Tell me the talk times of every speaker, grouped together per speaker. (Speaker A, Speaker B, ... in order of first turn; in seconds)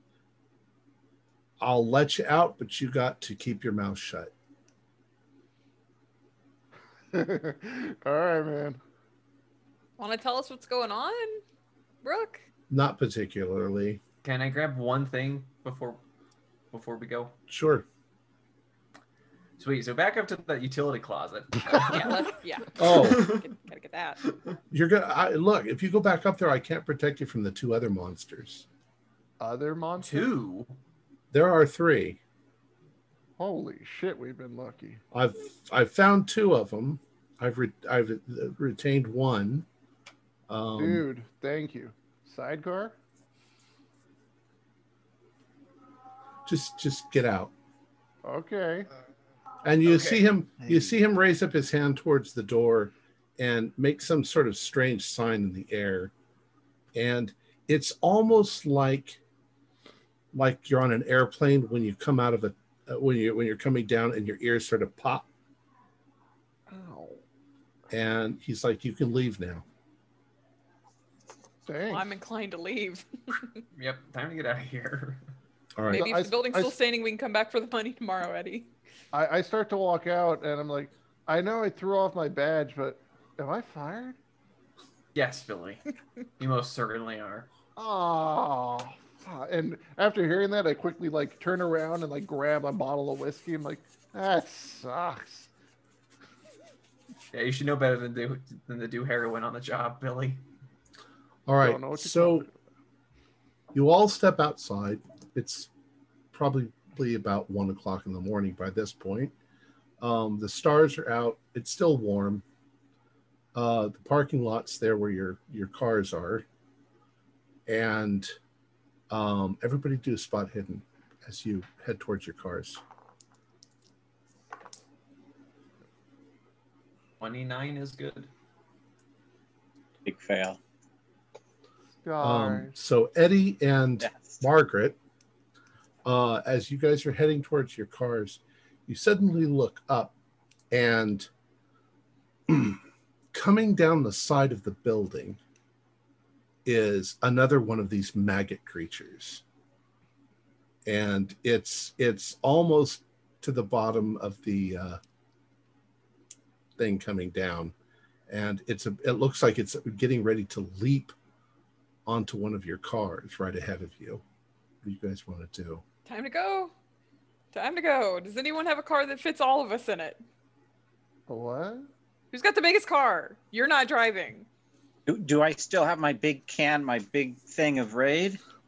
Speaker A: 1.6-4.3, 12.7-14.0, 17.5-17.9, 22.8-23.3, 24.7-28.6, 31.3-32.2, 35.1-39.6, 40.5-41.0, 46.5-47.5, 49.6-56.1, 56.9-59.2, 60.3-65.2, 67.9-69.6, 75.8-76.0, 101.5-102.5, 103.7-105.7, 106.3-109.3, 110.0-112.4, 113.5-116.5, 117.7-118.3, 119.1-122.8, 132.2-135.0, 136.0-140.1, 140.7-141.3, 142.5-142.8, 143.3-145.4, 146.6-149.4, 150.8-155.0, 156.8-157.7, 158.3-161.1, 162.1-164.2, 164.8-165.8
Speaker B: 7.1-8.8, 29.4-30.3, 33.4-35.0, 40.8-42.9, 48.2-48.9, 66.7-67.2, 71.6-72.1, 75.9-76.7, 79.1-84.2, 87.8-95.5, 101.6-102.5, 132.0-132.7, 171.3-171.9
Speaker C: 10.0-11.4, 12.0-12.4, 21.7-24.2, 71.9-73.6, 75.9-78.7, 166.1-166.7, 167.5-170.2, 172.3-174.5
Speaker D: 14.2-16.0, 16.7-17.3, 19.6-22.2, 22.8-23.4, 30.0-30.7, 49.9-50.2, 73.8-75.2, 85.1-85.8, 86.4-87.5, 97.3-100.4, 127.2-128.3
Speaker E: 130.0-130.6, 134.0-134.3, 175.1-178.4